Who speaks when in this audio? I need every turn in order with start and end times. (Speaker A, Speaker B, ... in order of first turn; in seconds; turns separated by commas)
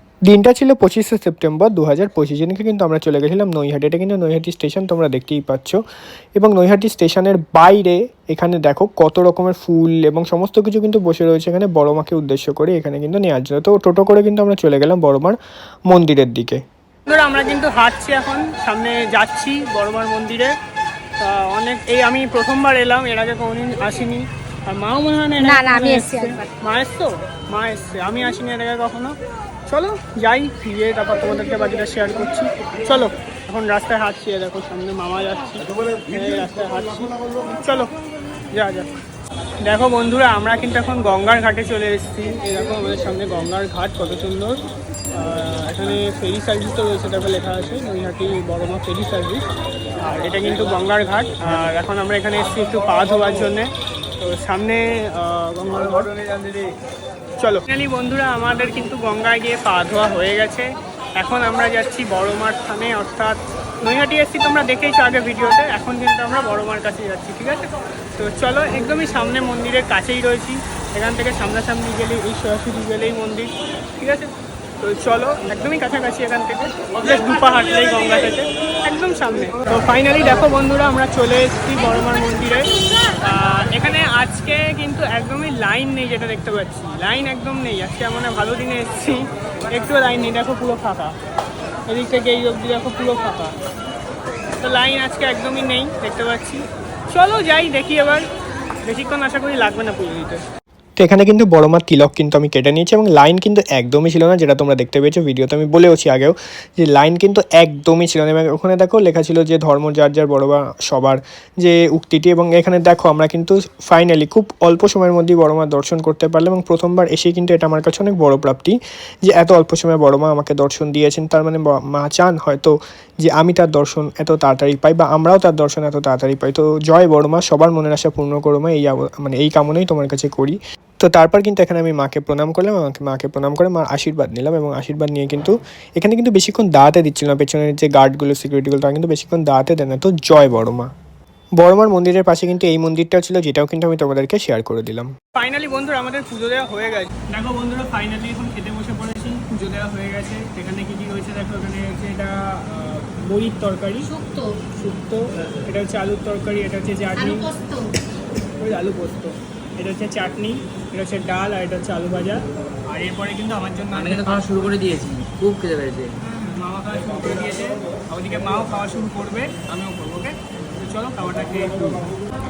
Speaker A: 0.3-5.8, Speaker A: 6.4-15.4, Speaker A: 15.9-16.6, Speaker B: 17.1-20.5, Speaker B: 21.2-29.1, Speaker C: 25.4-26.5, Speaker B: 29.7-37.9, Speaker B: 38.5-38.9, Speaker B: 39.7-44.6, Speaker B: 45.2-49.4, Speaker B: 50.0-53.7, Speaker B: 54.2-56.6, Speaker B: 57.4-60.7, Speaker B: 61.2-82.7, Speaker B: 83.2-91.1, Speaker B: 91.9-93.5, Speaker B: 94.6-98.2, Speaker B: 98.9-100.4, Speaker A: 101.0-140.9, Speaker A: 141.6-145.1, Speaker B: 145.3-154.2, Speaker C: 154.0-154.5, Speaker B: 154.7-157.5, Speaker C: 157.2-157.9, Speaker B: 158.6-164.7, Speaker D: 163.9-166.2, Speaker B: 166.2-172.1